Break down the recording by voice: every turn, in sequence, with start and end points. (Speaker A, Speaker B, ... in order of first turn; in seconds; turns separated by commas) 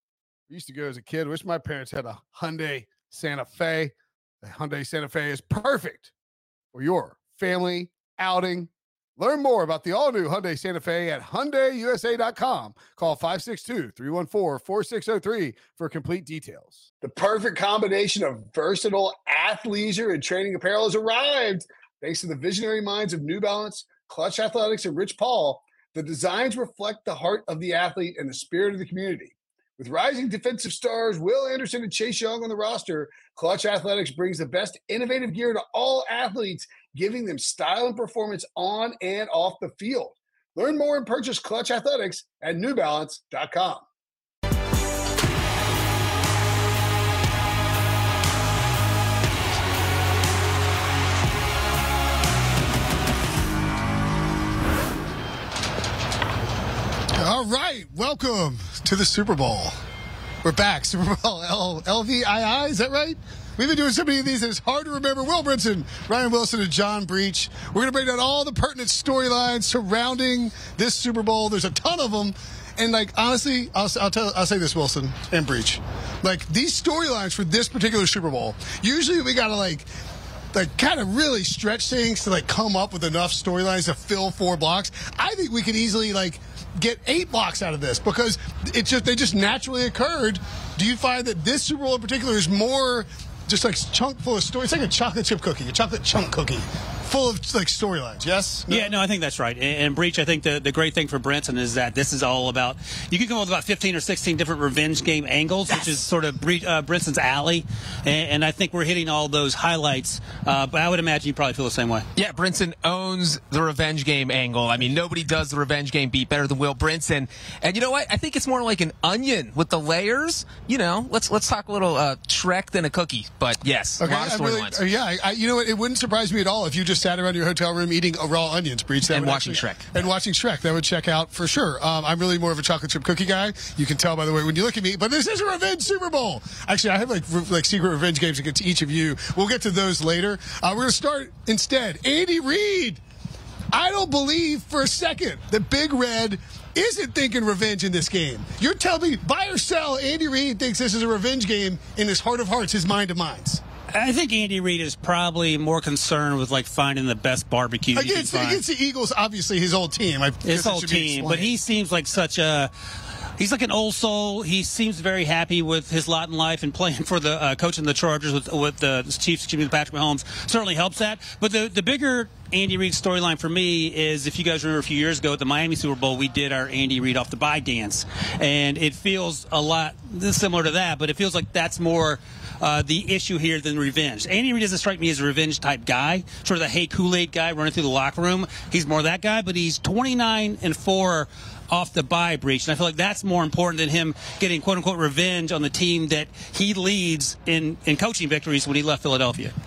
Speaker A: 0.5-6.1, Speaker A: 6.7-43.8, Speaker A: 57.2-59.7, Speaker A: 60.4-79.8, Speaker A: 80.5-98.9, Speaker B: 98.7-112.0, Speaker C: 112.2-124.8, Speaker A: 124.0-143.0, Speaker C: 129.1-129.9, Speaker A: 143.7-153.6, Speaker B: 153.9-158.6, Speaker A: 157.9-161.5, Speaker B: 160.4-162.7, Speaker B: 163.4-199.5